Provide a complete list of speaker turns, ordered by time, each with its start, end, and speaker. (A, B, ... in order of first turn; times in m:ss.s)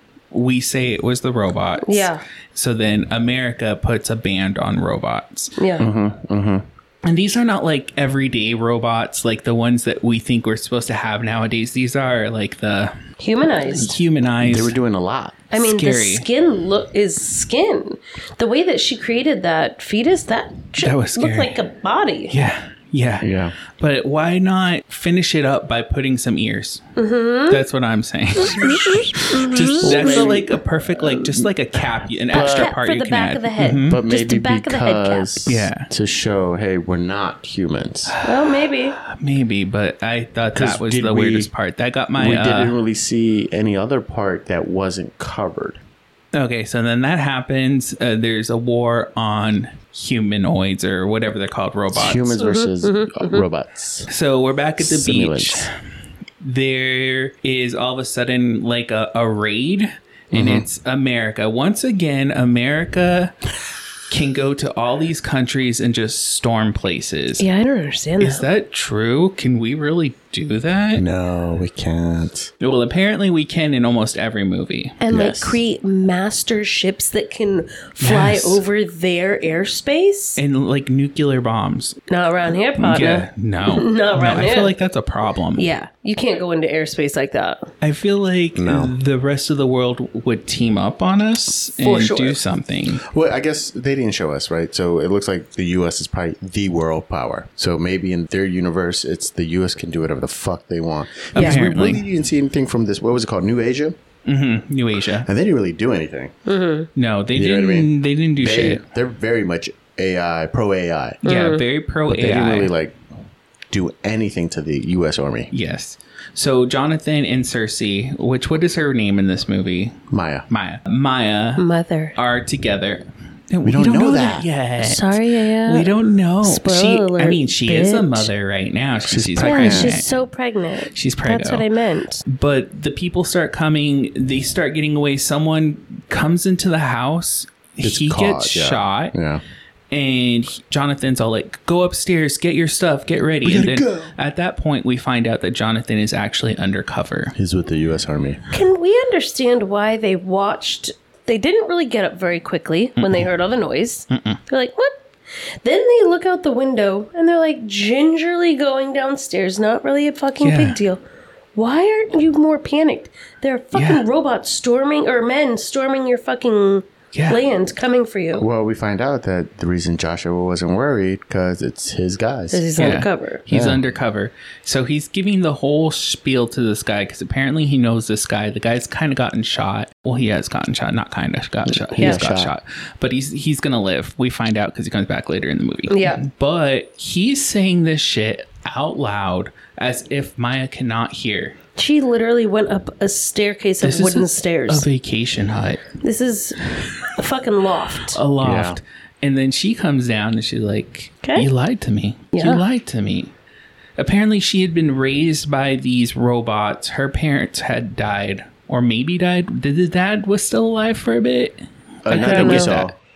0:00.3-0:05.6 A
0:01.8-0:02.2 B
0:05.6-0:05.8 B
0:05.8-0:06.6 C
0:07.0-0:12.9 A
0:13.2-0:14.0 B
0:13.7-0:14.8 A
0:14.4-0:15.4 C
0:15.5-0:22.3 B
0:15.5-0:16.2 A
0:20.8-0:21.6 A
0:22.3-0:26.8 A
0:23.2-0:23.6 C
0:27.0-0:27.6 B
0:27.5-0:34.0 A
0:28.4-0:30.3 B
0:29.8-0:30.6 C
0:31.2-0:31.4 C
0:32.3-0:32.7 C
0:32.3-0:35.3 B
0:33.8-0:38.1 C
0:35.4-0:35.9 A
0:38.1-0:42.8 A
0:38.2-0:39.0 B
0:40.5-0:41.5 C
0:42.2-0:45.8 C
0:46.3-0:52.4 A
0:51.9-0:54.1 C
0:52.4-0:53.4 B
0:54.1-0:55.7 A
0:54.8-0:55.7 C
0:56.4-1:03.3 A
1:00.3-1:00.6 C
1:04.1-1:07.4 A
1:07.4-1:08.4 B
1:08.2-1:11.0 A
1:11.0-1:12.5 C
1:12.6-1:15.0 A
1:15.0-1:20.4 B
1:15.1-1:15.6 C
1:18.0-1:18.6 A
1:20.4-1:22.0 A
1:22.1-1:24.7 B
1:22.8-1:25.6 A
1:25.6-1:27.7 B
1:27.8-1:33.0 A
1:28.5-1:28.9 C
1:31.8-1:32.4 B
1:33.0-1:44.0 C
1:41.3-1:42.0 A
1:44.2-1:45.3 A
1:45.2-1:46.3 C
1:46.4-1:46.9 B
1:47.0-1:48.8 A
1:47.3-1:51.2 C
1:51.2-1:52.7 A
1:51.2-1:51.6 B
1:52.1-1:53.0 C
1:53.7-1:55.5 C
1:55.5-2:00.0 A
2:00.1-2:00.4 C
2:00.5-2:01.6 A
2:01.6-2:02.1 B
2:02.1-2:10.1 A
2:03.6-2:04.5 C
2:04.8-2:05.9 B
2:06.4-2:08.3 B
2:09.0-2:10.0 C
2:09.4-2:12.2 B
2:10.9-2:11.7 A
2:12.2-2:19.2 A
2:17.8-2:19.4 C
2:19.9-2:27.3 A
2:23.4-2:24.1 C
2:27.3-2:28.4 C
2:28.5-2:35.0 B
2:33.0-2:33.2 A
2:34.1-2:34.4 A
2:35.6-2:41.0 B
2:40.4-2:40.8 A
2:41.6-2:48.4 B
2:43.7-2:44.0 A
2:47.1-2:47.4 A
2:48.4-2:52.7 C
2:52.5-2:53.4 B
2:52.8-3:11.6 A
2:53.5-2:53.9 C
3:01.7-3:02.5 C
3:05.9-3:06.2 B
3:11.8-3:14.8 B
3:13.8-3:15.9 A
3:16.0-3:16.6 B
3:17.1-3:18.2 B
3:18.1-3:23.3 A
3:18.4-3:18.8 C
3:22.3-3:22.6 B
3:24.0-3:32.9 A
3:32.0-3:32.9 C
3:32.1-3:32.7 B